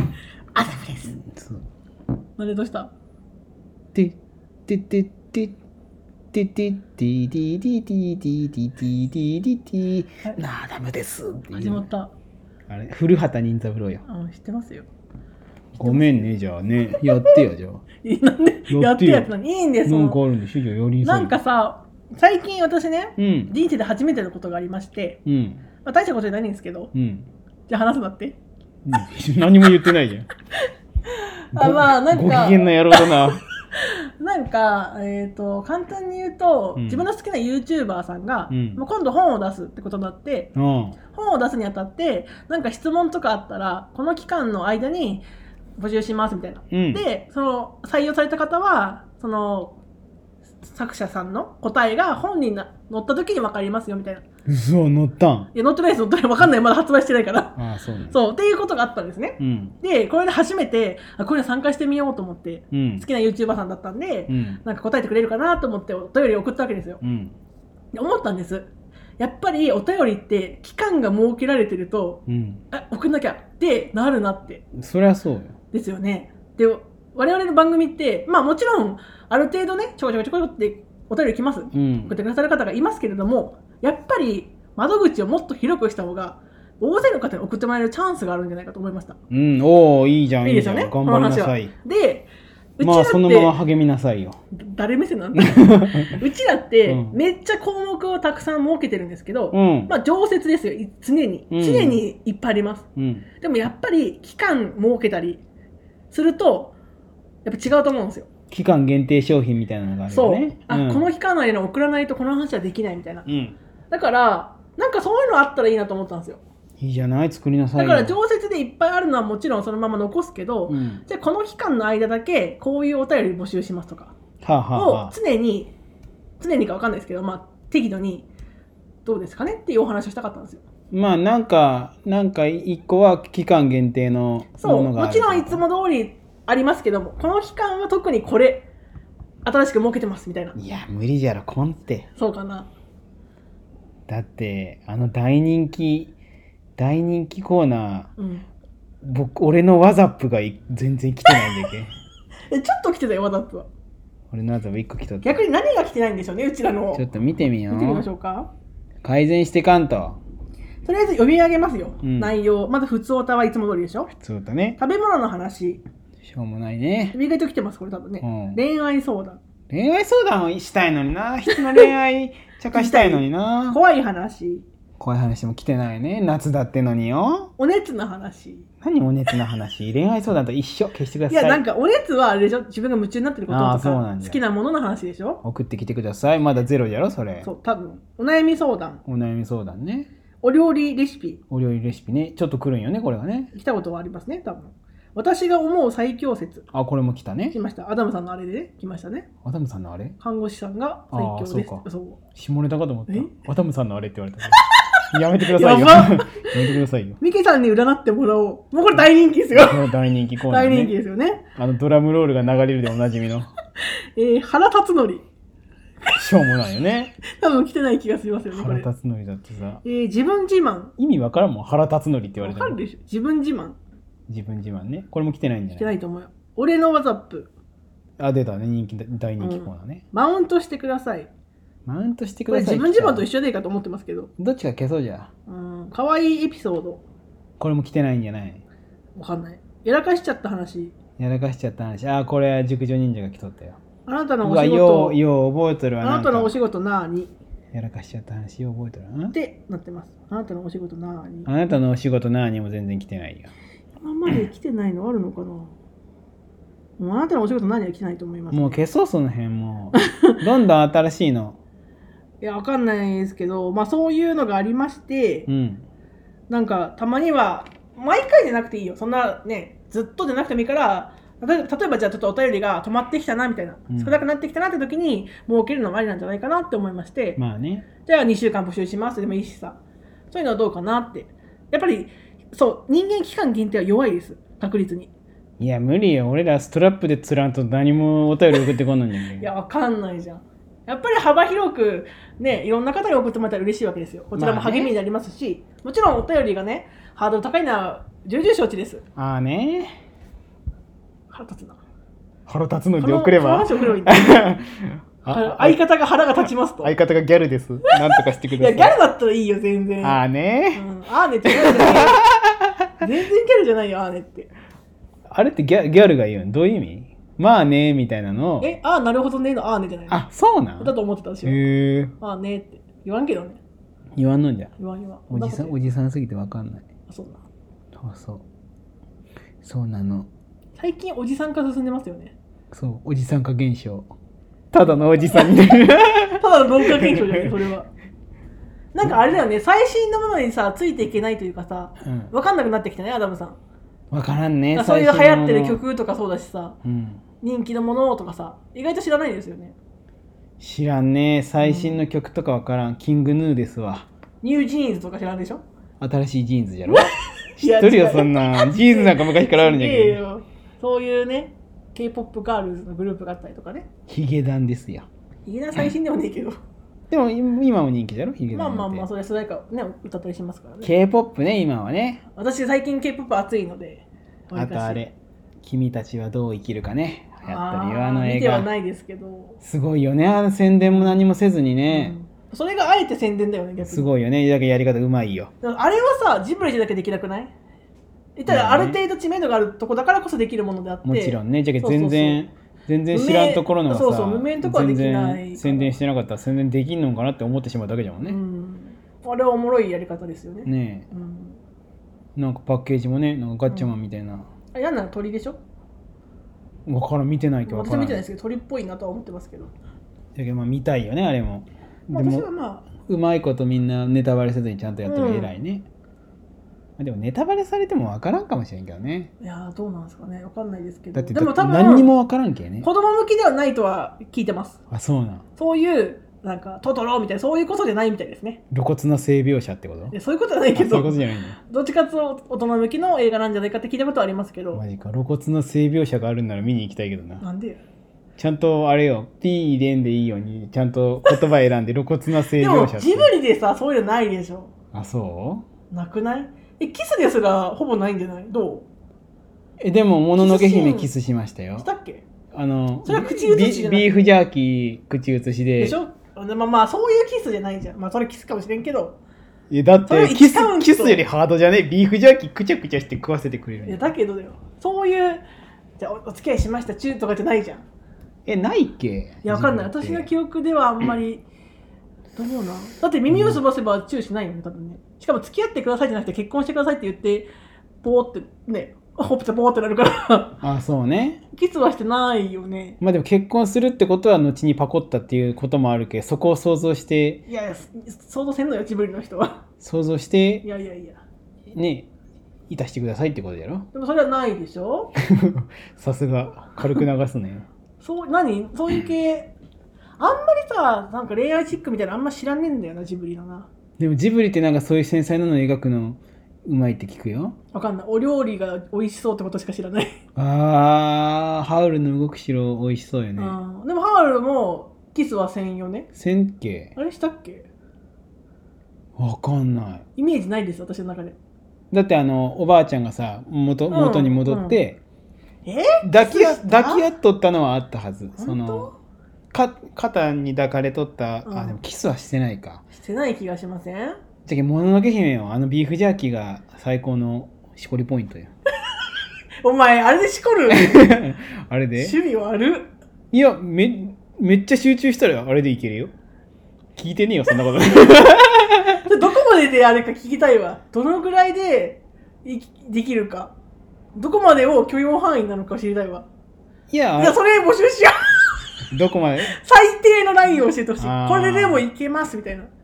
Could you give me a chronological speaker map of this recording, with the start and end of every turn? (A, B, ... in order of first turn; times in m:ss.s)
0:00.5-0:01.2 A
0:01.1-0:01.6 B
0:02.4-0:02.9 A
0:03.9-0:05.5 B
0:06.3-0:11.9 B
0:11.5-0:12.1 A
0:12.7-0:14.0 B
0:14.0-0:14.9 A
0:15.8-0:17.8 B
0:15.8-0:16.3 A
0:18.0-0:20.2 A
0:18.7-0:19.3 B
0:19.8-0:21.3 B
0:21.0-0:25.2 A
0:23.2-0:23.5 B
0:25.2-0:25.6 B
0:25.8-0:26.9 A
0:26.9-0:27.2 B
0:27.7-0:28.4 A
0:28.8-0:30.3 B
0:31.1-0:40.5 A
0:31.5-0:33.4 B
0:36.8-0:37.0 B
0:38.5-0:38.8 B
0:40.5-0:41.0 B
0:41.1-0:45.2 A
0:45.8-0:49.8 A
0:46.7-0:47.0 B
0:50.6-0:54.2 A
0:54.4-0:55.5 B
0:55.5-0:57.6 A
0:57.6-0:58.2 B
0:58.1-1:07.0 A
0:59.4-0:59.7 B
1:02.7-1:03.0 B
1:04.3-1:04.6 B
1:07.0-1:07.3 B
1:07.9-1:14.6 A
1:12.3-1:12.6 B
1:14.7-1:15.5 B
1:15.7-1:29.2 A
1:21.7-1:22.1 B
1:29.3-1:31.7 B
1:30.4-1:33.5 A
1:32.8-1:34.4 B
1:34.5-1:42.8 A
1:35.4-1:36.2 B
1:36.8-1:37.2 B
1:39.5-1:39.9 B
1:41.5-1:42.0 B
1:43.0-1:43.2 B
1:43.4-1:45.4 A
1:46.1-1:46.7 A
1:47.4-1:48.3 A
1:48.5-1:51.1 B
1:50.1-1:53.3 A
1:53.2-1:53.6 B
1:53.9-1:56.4 A
1:56.8-1:58.2 B
1:57.8-2:04.1 A
2:00.7-2:01.0 B
2:04.4-2:05.1 B
2:04.7-2:05.7 A
2:06.4-2:08.3 A
2:09.0-2:10.6 A
2:10.9-2:15.6 B
2:14.6-2:18.7 A
2:19.4-2:20.6 A
2:20.6-2:22.1 B
2:22.2-2:22.7 A
2:24.1-2:26.1 B
2:26.8-2:28.1 B
2:28.2-2:28.4 A
2:29.0-2:31.9 B
2:32.5-2:33.7 A
2:34.3-2:35.4 B
2:35.2-2:37.0 A
2:36.9-2:38.0 B
2:37.7-2:38.5 A
2:39.0-2:40.2 B
2:40.8-2:44.1 A
2:42.0-2:42.3 B
2:44.1-2:44.8 B
2:44.8-2:45.8 A
2:46.2-2:47.2 B
2:47.1-2:49.4 A
2:48.2-2:48.6 B
2:49.7-2:53.8 B
2:51.5-2:51.8 A
2:52.7-2:54.6 A
2:55.0-2:57.5 B
2:57.6-2:58.6 A
2:58.8-3:01.6 B
3:01.3-3:05.4 A
3:03.5-3:04.4 B
3:05.4-3:07.5 B
3:07.4-3:09.0 A
3:09.0-3:10.1 B
3:10.4-3:11.4 A
3:11.5-3:13.5 B
3:13.5-3:16.6 A
3:16.7-3:17.6 B
3:17.5-3:19.3 A
3:19.4-3:20.2 B
3:20.2-3:22.2 A
3:21.1-3:21.8 B
3:22.3-3:24.6 B
3:25.1-3:27.2 B
3:25.4-3:26.5 A
3:27.2-3:29.8 A
3:29.5-3:30.9 B
3:30.5-3:31.4 A
3:31.6-3:33.5 B
3:33.8-3:35.2 A
3:36.1-3:37.1 B
3:37.3-3:38.9 A
3:38.5-3:39.8 B
3:39.8-3:40.9 A
3:41.0-3:42.8 B
3:42.4-3:43.8 A
3:44.3-3:45.9 B
3:45.8-3:47.5 A
3:48.2-3:50.0 B
3:49.4-3:51.3 A
3:51.8-3:53.3 B
3:52.5-3:54.3 A
3:54.4-3:55.3 B
3:55.5-3:57.0 A
3:57.6-3:58.6 B
3:59.2-4:00.9 A
4:01.2-4:03.8 B
4:04.0-4:05.2 A
4:04.4-4:06.5 B
4:06.0-4:07.3 A
4:07.7-4:09.3 B
4:09.3-4:11.5 A
4:11.4-4:13.5 B
4:14.0-4:15.7 A
4:17.0-4:18.8 A
4:18.5-4:21.6 B
4:20.0-4:20.4 A
4:22.4-4:25.5 A
4:25.5-4:25.8 B
4:26.5-4:37.4 A
4:33.9-4:34.2 B
4:37.4-4:37.9 B
4:38.0-4:39.8 A
4:40.3-4:45.1 A
4:45.6-4:49.5 B
4:49.4-4:59.0 A
4:54.4-4:54.9 B
4:59.2-4:59.9 B
5:01.3-5:01.8 A
5:02.5-5:05.8 B
5:03.0-5:04.5 A
5:05.3-5:06.9 A
5:06.8-5:09.0 B
5:07.9-5:10.2 A
5:10.0-5:10.8 B
5:10.7-5:12.2 A
5:11.5-5:12.9 B
5:13.0-5:14.5 A
5:15.3-5:18.7 B
5:18.6-5:20.2 A
5:20.1-5:22.1 B
5:20.8-5:21.6 A
5:22.2-5:23.6 A
5:24.2-5:24.7 B
5:24.8-5:25.8 A
5:25.3-5:26.8 B
5:27.1-5:27.4 A
5:28.0-5:28.4 B
5:29.6-5:30.3 B
5:30.8-5:32.3 A
5:32.7-5:34.1 B
5:34.7-5:37.5 B
5:36.4-5:37.9 A
5:38.9-5:43.6 A
5:42.0-5:42.3 B
5:44.1-5:45.8 B
5:44.7-5:46.8 A
5:46.8-5:47.2 B
5:47.4-5:49.7 A
5:50.6-5:54.1 B
5:51.6-5:52.0 A
5:54.4-5:55.6 A
5:56.0-6:00.2 B
5:56.9-6:03.9 A
6:04.1-6:05.1 B
6:05.4-6:06.6 A
6:07.1-6:09.1 B
6:08.5-6:10.9 A
6:10.8-6:12.2 B
6:12.3-6:15.0 A
6:14.5-6:18.7 B
6:17.4-6:19.6 A
6:19.6-6:22.2 B
6:20.8-6:21.2 A
6:21.9-6:24.1 A
6:23.8-6:25.5 B
6:25.6-6:27.5 A
6:28.4-6:32.4 A
6:28.5-6:29.0 B
6:31.0-6:38.4 B
6:33.1-6:36.0 A
6:38.2-6:41.6 A
6:40.6-6:41.1 B
6:42.4-6:44.4 B
6:44.7-6:45.6 A
6:46.8-6:48.2 B
6:47.6-6:49.7 A
6:50.3-6:55.8 B
6:52.1-6:52.9 A
6:55.0-6:55.5 A
6:57.0-6:59.3 B
6:59.4-7:02.1 A
7:01.1-7:02.9 B
7:02.8-7:04.8 A
7:04.9-7:05.4 B
7:05.6-7:08.6 A
7:08.7-7:10.1 B
7:10.1-7:14.8 A
7:10.7-7:11.6 B
7:14.7-7:17.4 B
7:17.4-7:17.8 A
7:18.4-7:23.3 B
7:22.5-7:24.7 A
7:24.9-7:25.6 B
7:25.9-7:28.9 A
7:29.8-7:31.9 B
7:30.4-7:31.1 A
7:31.8-7:32.2 A
7:32.5-7:36.0 B
7:33.0-7:34.2 A
7:35.8-7:39.2 A
7:39.7-7:44.1 B
7:40.0-7:41.2 A
7:43.8-7:45.4 A
7:46.0-7:47.8 A
7:48.4-7:50.3 B
7:49.4-7:51.4 A
7:52.4-7:57.5 A
7:53.3-7:53.6 B
7:58.0-8:00.6 A
8:00.6-8:01.4 B
8:01.5-8:03.0 A
8:03.0-8:07.4 B
8:07.5-8:09.6 A
8:09.8-8:10.6 B
8:10.6-8:11.2 A
8:11.7-8:12.1 B
8:12.7-8:13.9 B
8:13.9-8:15.1 A
8:15.2-8:17.6 B
8:18.0-8:19.5 A
8:20.2-8:23.7 A
8:24.0-8:27.6 B
8:27.7-8:30.2 A
8:30.4-8:33.6 B
8:33.4-8:36.1 A
8:36.1-8:36.9 B
8:37.0-8:37.7 A
8:39.2-8:40.0 B
8:40.2-8:41.4 A
8:41.9-8:45.0 B
8:43.9-8:44.8 A
8:45.6-8:47.0 A
8:46.0-8:48.9 B
8:48.4-8:48.9 A
8:49.5-8:52.8 B
8:51.4-8:51.8 A
8:52.9-8:54.2 A
8:54.4-8:58.5 B
8:59.6-9:01.0 A
9:00.7-9:02.2 B
9:02.0-9:02.9 A
9:03.3-9:06.1 B
9:07.0-9:09.1 B
9:09.0-9:13.5 A
9:14.1-9:16.3 A
9:16.9-9:17.4 B
9:17.2-9:18.5 A
9:18.9-9:19.5 B
9:19.5-9:22.7 A
9:21.0-9:21.8 B